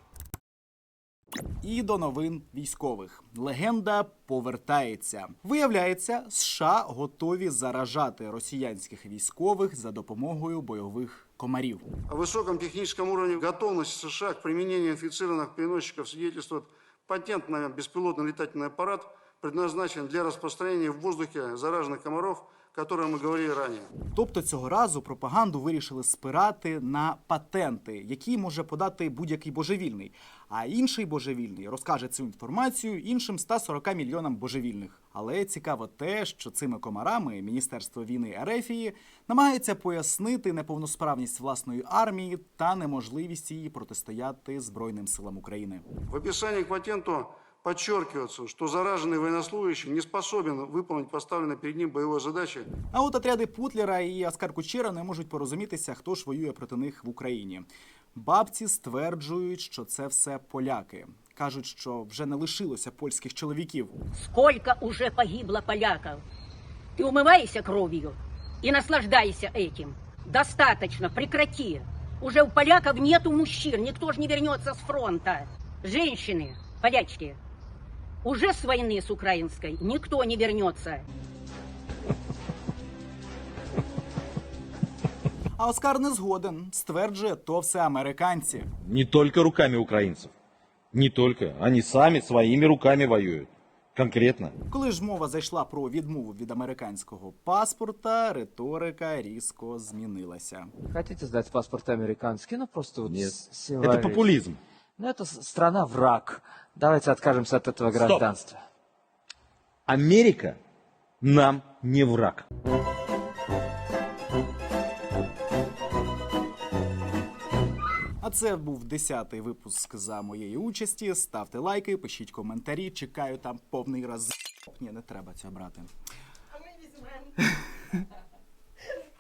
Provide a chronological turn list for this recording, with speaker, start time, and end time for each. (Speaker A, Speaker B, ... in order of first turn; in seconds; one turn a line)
Speaker A: 1.6-11.8
Speaker B: 12.1-23.9
Speaker A: 24.1-45.9
Speaker B: 46.1-52.7
Speaker A: 52.9-63.9
Speaker C: 64.2-66.2
Speaker C: 67.0-77.4
Speaker C: 78.2-81.0
Speaker A: 85.6-88.7
Speaker D: 88.8-90.3
Speaker D: 90.9-94.5
Speaker A: 94.7-100.7
Speaker E: 100.9-104.3
Speaker D: 103.0-104.6
Speaker E: 105.0-108.6
Speaker D: 107.9-108.3
Speaker D: 109.9-110.6
Speaker D: 111.2-112.5
Speaker A: 118.2-125.9